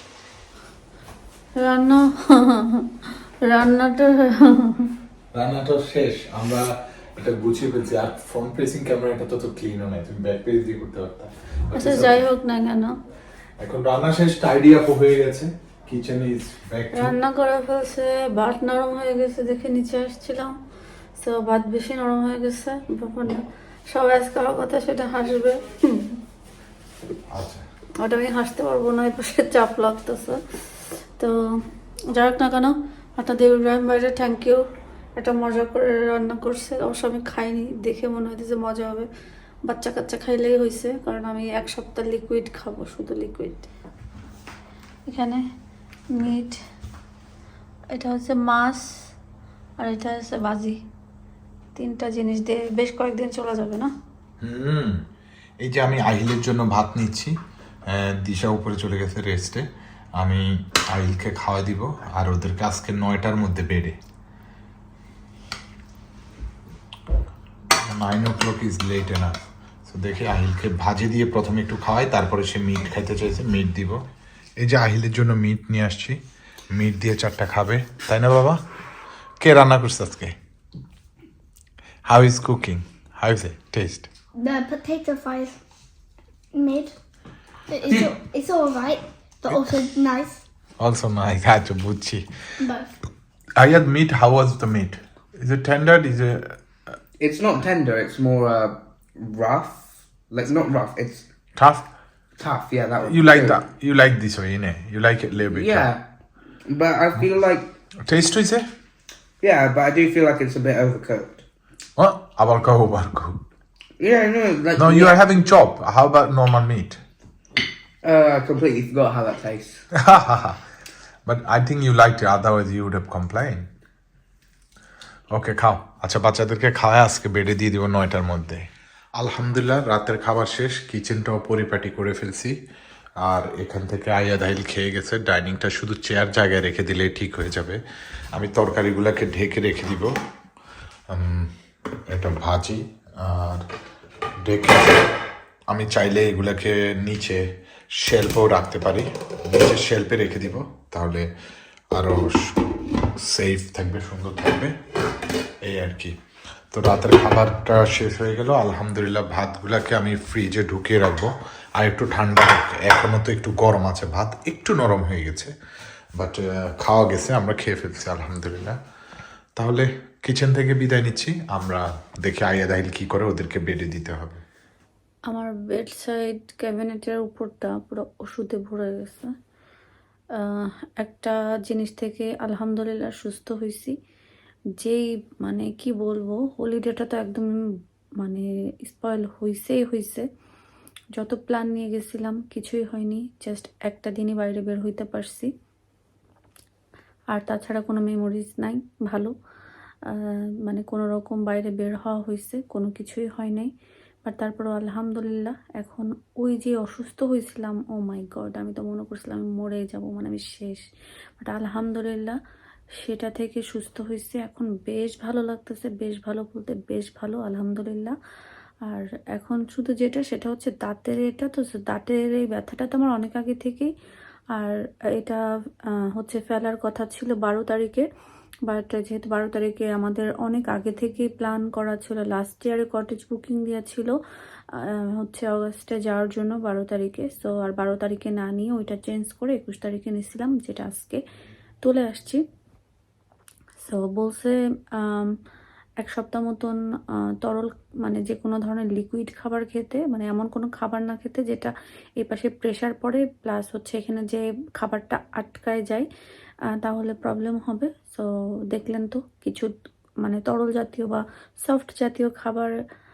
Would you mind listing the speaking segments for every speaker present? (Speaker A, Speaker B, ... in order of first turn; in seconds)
Speaker A: 1.6-5.0, 11.8-13.0, 16.9-20.6, 21.2-26.2, 28.0-30.6, 31.2-34.6, 35.2-39.1, 39.6-43.7, 45.1-45.5, 46.1-46.6, 47.9-49.1, 49.8-50.8, 51.8-53.9, 175.3-179.3, 180.3-184.0, 184.8-187.7, 188.2-190.3, 191.2-195.5, 197.3-199.3, 200.1-203.7, 204.2-210.8, 211.4-212.4, 213.0-218.2, 218.8-223.9, 224.5-228.1, 228.7-234.2, 234.7-241.2, 241.8-242.4, 243.8-245.4, 246.0-256.1, 256.7-262.7
Speaker B: 5.3-12.2, 13.6-17.1, 27.3-27.6, 54.4-55.0, 55.6-57.4, 57.9-59.7, 60.2-64.0, 67.9-69.3, 69.9-74.0, 74.6-76.2, 76.7-78.6, 79.4-80.4, 82.1-84.1, 90.8-92.3, 93.6-96.9, 101.6-101.9, 103.0-105.9, 108.0-108.7, 112.0-113.4, 114.8-117.0, 119.9-120.6, 121.3-123.7, 125.3-132.6, 133.2-137.8, 138.3-140.2, 141.1-141.5, 142.1-143.7, 144.4-145.2, 145.7-151.3, 151.9-154.8, 155.6-156.2, 156.7-165.5, 166.2-168.8, 169.6-174.4
Speaker C: 84.3-85.6, 86.5-87.0, 87.7-90.4, 92.6-92.9
Speaker D: 87.8-88.1, 97.2-101.3, 102.4-103.6, 105.5-106.0, 106.7-107.7, 109.4-111.5, 114.0-115.4, 118.0-119.9